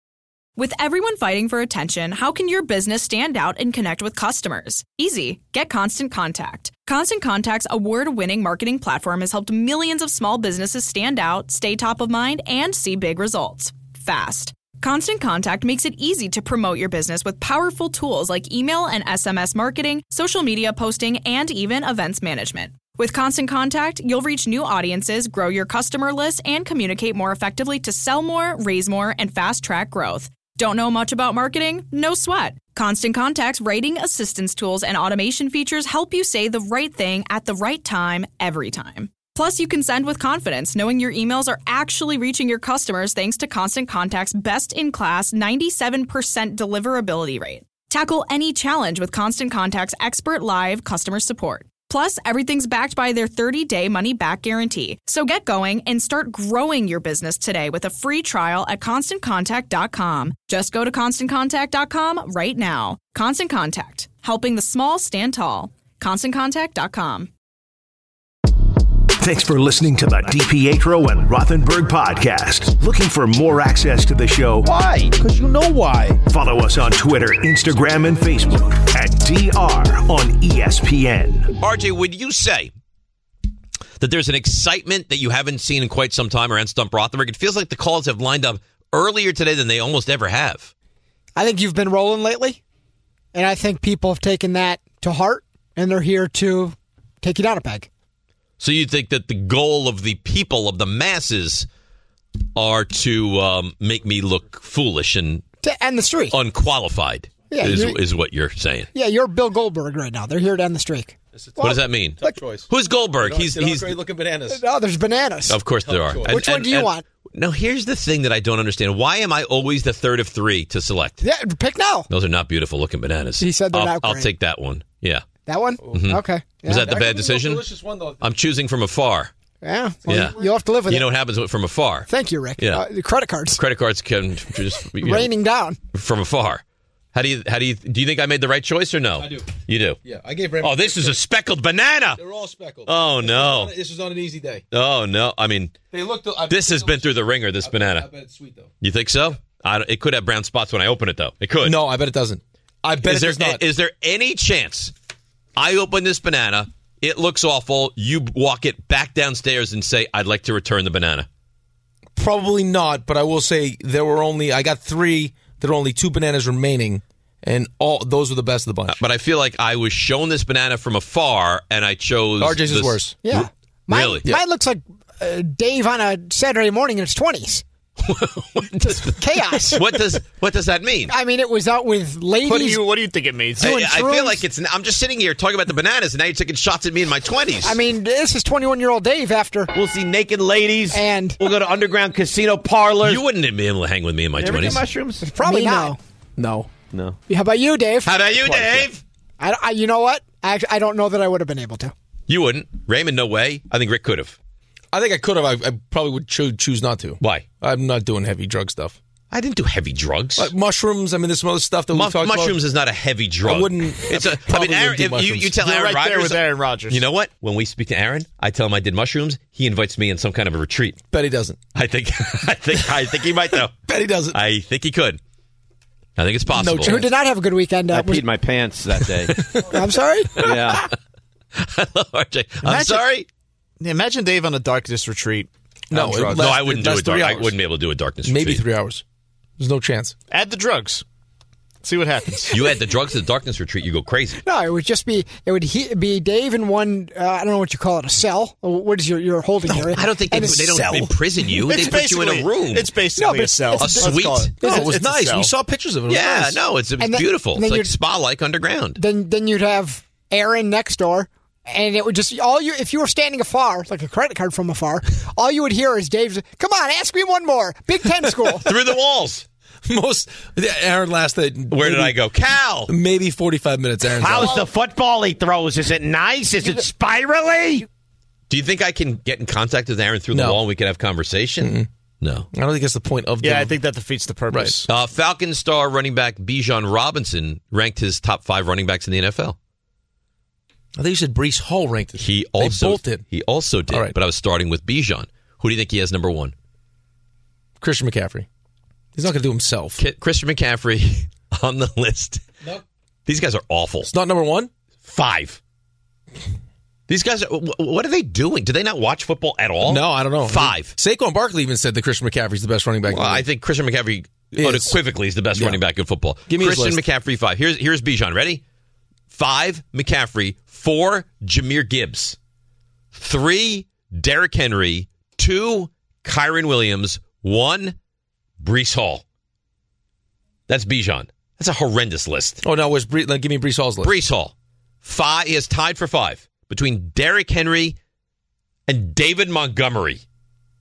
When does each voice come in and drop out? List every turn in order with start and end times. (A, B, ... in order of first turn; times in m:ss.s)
0:00.6-1:07.3 A
1:09.2-1:14.7 B
1:14.6-1:15.1 C
1:16.2-1:21.5 B
1:21.6-1:22.7 D
1:24.0-1:30.7 D
1:31.4-1:32.6 E
1:33.3-1:37.9 E
1:38.6-1:41.7 D
1:42.6-1:45.4 D
1:45.6-1:46.4 E
1:46.3-1:48.9 D
1:47.5-1:48.0 E
1:48.9-1:52.4 E
1:51.4-1:52.7 F
1:51.6-1:54.0 D
1:53.2-1:54.6 F
1:54.5-1:55.6 E
1:55.5-2:01.2 D
1:55.7-1:56.4 F
1:56.2-1:57.0 E
2:01.2-2:02.1 E
2:02.1-2:05.2 D
2:03.4-2:04.3 E
2:05.4-2:06.9 E
2:05.8-2:06.1 F
2:05.9-2:07.6 D
2:06.8-2:08.3 F
2:08.2-2:09.3 D
2:09.6-2:11.1 E
2:10.1-2:12.8 D
2:10.1-2:10.4 F
2:12.1-2:13.6 E
2:13.6-2:15.3 D
2:15.0-2:15.8 E
2:15.9-2:16.6 D
2:17.1-2:20.0 D
2:19.2-2:21.2 F
2:20.6-2:22.2 D
2:22.2-2:24.6 F
2:22.8-2:23.7 D
2:24.7-2:25.8 D
2:25.9-2:28.7 F
2:26.5-2:28.1 D
2:28.8-2:31.8 D
2:31.6-2:33.6 F
2:33.0-2:34.9 D
2:35.6-2:41.3 D
2:42.2-2:49.0 F
2:48.9-2:54.3 D
2:52.4-2:53.2 F
2:53.2-2:57.6 E
2:58.0-3:01.1 D
2:58.8-3:00.2 E
3:01.1-3:02.8 E
3:02.4-3:03.7 G
3:03.6-3:07.8 D
3:03.6-3:04.4 E
3:07.6-3:09.7 E
3:09.7-3:13.2 C
3:10.9-3:11.4 E
3:13.0-3:14.9 D
3:14.4-3:15.3 C
3:15.2-3:16.0 E
3:16.4-3:16.7 F
3:17.3-3:18.2 E
3:18.0-3:19.0 C
3:18.0-3:18.9 D
3:19.4-3:21.9 E
3:22.3-3:24.4 D
3:24.9-3:29.0 F
3:27.2-3:27.4 D
3:29.3-3:30.5 D
3:30.4-3:32.6 F
3:31.9-3:41.0 D
3:33.4-3:35.6 F
3:35.6-3:37.1 G
3:41.1-3:41.6 F
3:41.7-3:43.7 D
3:43.8-3:44.4 F
3:44.3-3:45.2 D
3:46.2-3:47.0 D
3:46.5-3:47.1 F
3:46.8-3:48.3 E
3:47.9-3:49.3 C
3:49.3-3:49.7 F
3:49.6-3:50.6 E
3:50.4-3:50.9 D
3:50.4-3:50.8 C
3:51.6-3:53.2 D
3:52.6-3:53.2 G
3:53.8-3:55.5 G
3:55.9-3:56.4 C
3:55.9-3:57.5 F
3:56.3-3:58.6 D
3:58.2-3:59.0 F
3:59.6-4:00.1 F
4:00.3-4:01.0 G
4:01.8-4:02.7 G
4:02.5-4:04.4 D
4:04.4-4:10.7 E
4:09.6-4:11.1 F
4:09.9-4:12.9 D
4:11.7-4:15.5 G
4:13.2-4:14.8 E
4:13.8-4:14.8 D
4:14.6-4:16.6 F
4:16.1-4:19.0 D
4:17.0-4:17.9 E
4:19.0-4:28.7 E
4:28.6-4:29.4 D
4:29.8-4:32.2 F
4:31.7-4:32.9 D
4:32.9-4:34.6 F
4:34.0-4:37.8 C
4:38.5-4:42.5 D
4:40.3-4:40.6 F
4:41.6-4:41.9 F
4:42.5-4:43.8 F
4:43.4-4:44.8 G
4:44.5-4:44.8 F
4:44.9-4:49.6 D
4:51.0-4:53.2 F
4:52.2-4:56.5 D
4:53.9-4:54.2 F
4:57.8-4:58.4 F
4:59.2-5:00.0 F
5:00.0-5:02.4 D
5:03.3-5:04.1 D
5:04.0-5:04.7 F
5:05.0-5:05.6 D
5:07.1-5:10.9 D
5:09.8-5:13.4 F
5:13.1-5:18.6 D
5:14.5-5:15.0 F
5:15.5-5:15.8 F
5:16.5-5:17.0 F
5:19.3-5:22.4 D
5:23.1-5:28.0 D
5:28.6-5:29.2 D
5:30.7-5:32.6 D
5:32.6-5:34.1 F
5:34.0-5:38.0 D
5:38.9-5:40.2 D